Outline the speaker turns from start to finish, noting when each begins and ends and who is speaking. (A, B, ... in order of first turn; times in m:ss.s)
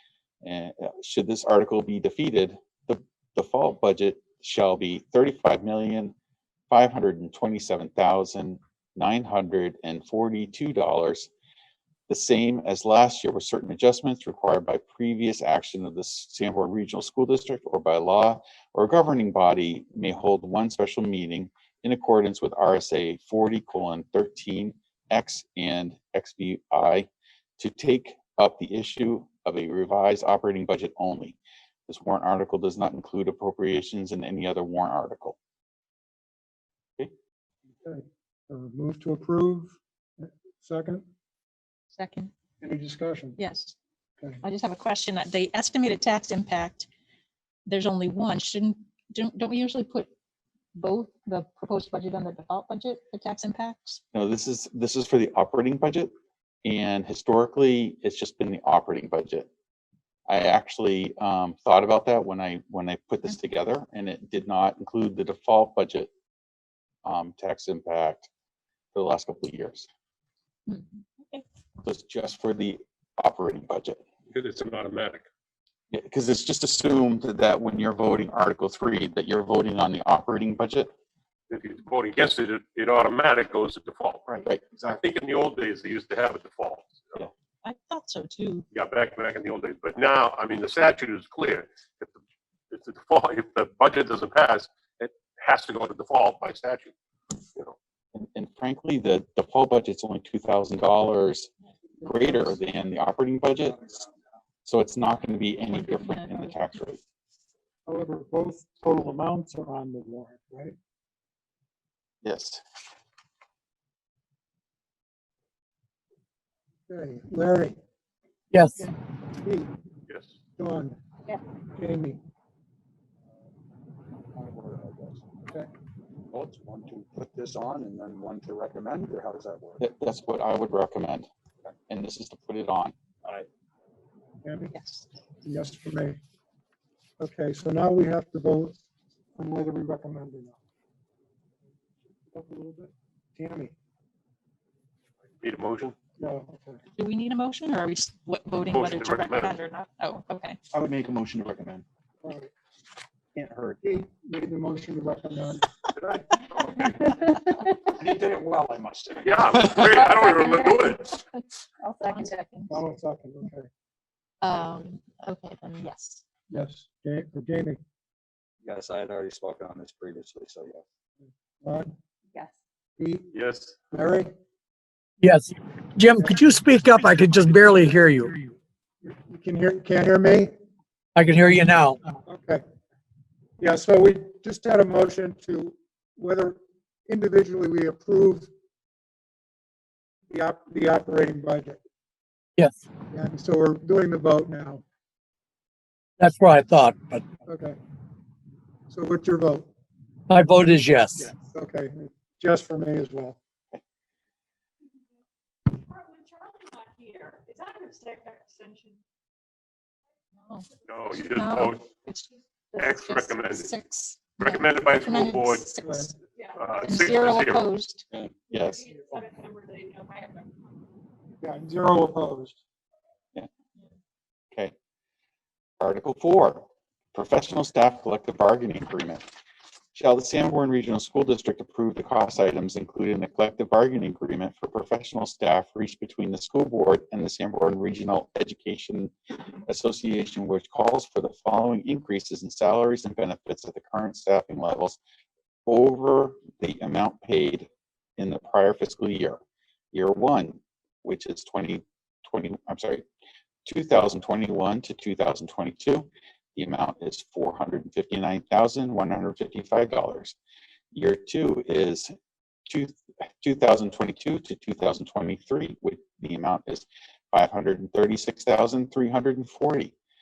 0:00.4-0:06.1 A
0:06.7-0:11.3 A
0:12.1-0:27.1 A
0:27.6-0:35.4 A
0:37.8-0:41.0 B
0:42.0-0:42.3 C
0:42.6-0:43.4 B
0:43.4-0:43.8 C
0:44.4-0:46.9 C
0:47.7-0:50.1 C
0:50.8-0:54.0 C
0:54.1-0:56.1 A
0:56.6-0:59.5 A
1:00.3-1:06.1 A
1:07.0-1:08.3 A
1:08.9-1:09.9 A
1:10.7-1:11.4 C
1:11.8-1:14.0 A
1:14.3-1:15.2 D
1:15.9-1:20.9 A
1:21.5-1:24.3 D
1:24.3-1:25.0 A
1:24.9-1:27.2 D
1:27.6-1:28.6 C
1:28.7-1:32.2 D
1:32.7-1:36.9 D
1:38.1-1:41.5 A
1:42.0-1:43.8 A
1:44.6-1:47.0 A
1:45.7-1:46.6 C
1:47.9-1:50.8 B
1:52.2-1:52.6 A
1:56.9-1:57.8 B
1:58.5-1:58.8 E
1:59.4-1:59.7 B
2:00.6-2:01.0 B
2:01.8-2:02.2 B
2:04.3-2:05.2 F
2:06.3-2:09.8 F
2:09.8-2:11.3 A
2:11.9-2:12.9 A
2:14.4-2:14.8 B
2:14.7-2:15.1 C
2:15.4-2:16.2 B
2:17.2-2:18.8 B
2:19.4-2:20.6 B
2:22.3-2:23.7 B
2:25.4-2:26.0 D
2:26.2-2:26.8 B
2:27.0-2:30.6 C
2:28.7-2:29.6 D
2:31.4-2:31.8 A
2:32.2-2:32.5 B
2:33.9-2:35.7 B
2:36.0-2:37.3 F
2:38.0-2:40.0 F
2:39.2-2:41.2 D
2:40.1-2:41.0 C
2:41.8-2:42.8 C
2:42.7-2:43.7 B
2:44.4-2:46.2 C
2:46.5-2:47.8 B
2:48.6-2:50.8 F
2:51.6-2:51.9 B
2:53.0-2:53.3 B
2:53.3-2:53.8 D
2:53.9-2:54.3 B
2:55.2-2:58.4 E
2:59.0-3:00.5 B
3:01.2-3:02.0 E
3:02.2-3:02.6 B
3:03.6-3:08.5 B
3:10.3-3:11.8 B
3:13.1-3:14.8 B
3:16.2-3:17.2 E
3:17.5-3:17.8 B
3:18.9-3:19.7 B
3:20.3-3:21.2 E
3:21.3-3:23.4 B
3:25.7-3:29.0 G
3:30.4-3:36.1 C
3:30.8-3:31.8 D
3:32.8-3:33.7 D
3:34.4-3:35.7 D
3:35.8-3:36.1 B
3:36.4-3:36.9 G
3:36.6-3:37.7 D
3:36.8-3:38.0 C
3:38.5-3:38.8 A
3:38.6-3:40.4 G
3:41.4-3:42.6 B
3:45.8-3:49.2 A
3:49.9-3:59.1 A
3:59.7-4:05.0 A
4:05.7-4:09.4 A
4:09.9-4:13.0 A
4:13.6-4:20.4 A
4:20.9-4:22.1 A
4:22.7-4:29.9 A